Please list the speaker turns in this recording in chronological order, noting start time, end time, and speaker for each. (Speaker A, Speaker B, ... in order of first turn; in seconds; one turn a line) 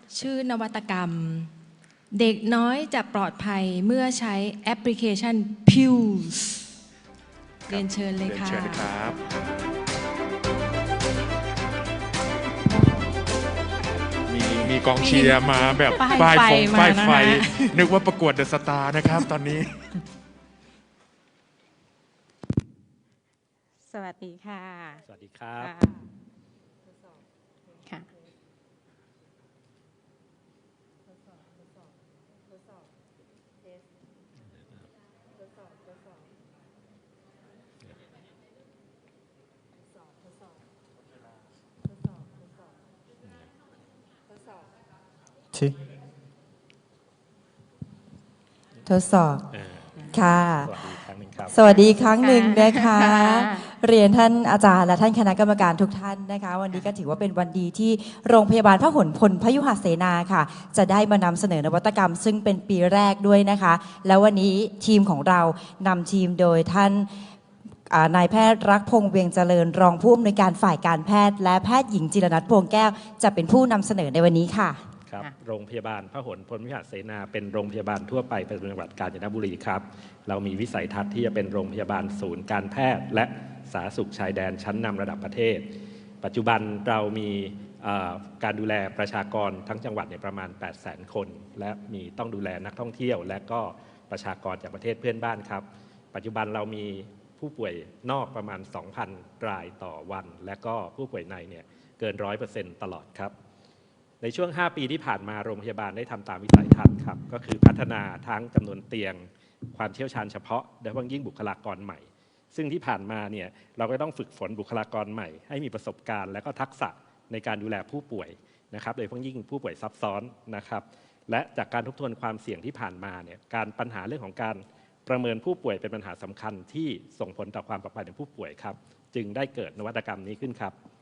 Speaker A: 0.1-1.5
Speaker A: 2.1-6.7
Speaker A: 7.7-8.9
Speaker B: 7.7-9.2
Speaker B: 14.3-20.0
Speaker A: 15.0-17.8
Speaker C: 23.9-25.0
Speaker D: 25.0-25.7
Speaker C: 25.6-25.9
Speaker E: 48.8-49.4
Speaker D: 49.5-51.6
Speaker E: 50.1-50.7
Speaker E: 51.5-67.1
Speaker C: 52.2-53.6
Speaker E: 67.9-74.8
Speaker D: 75.0-85.7
Speaker D: 86.2-103.3
Speaker D: 104.2-130.7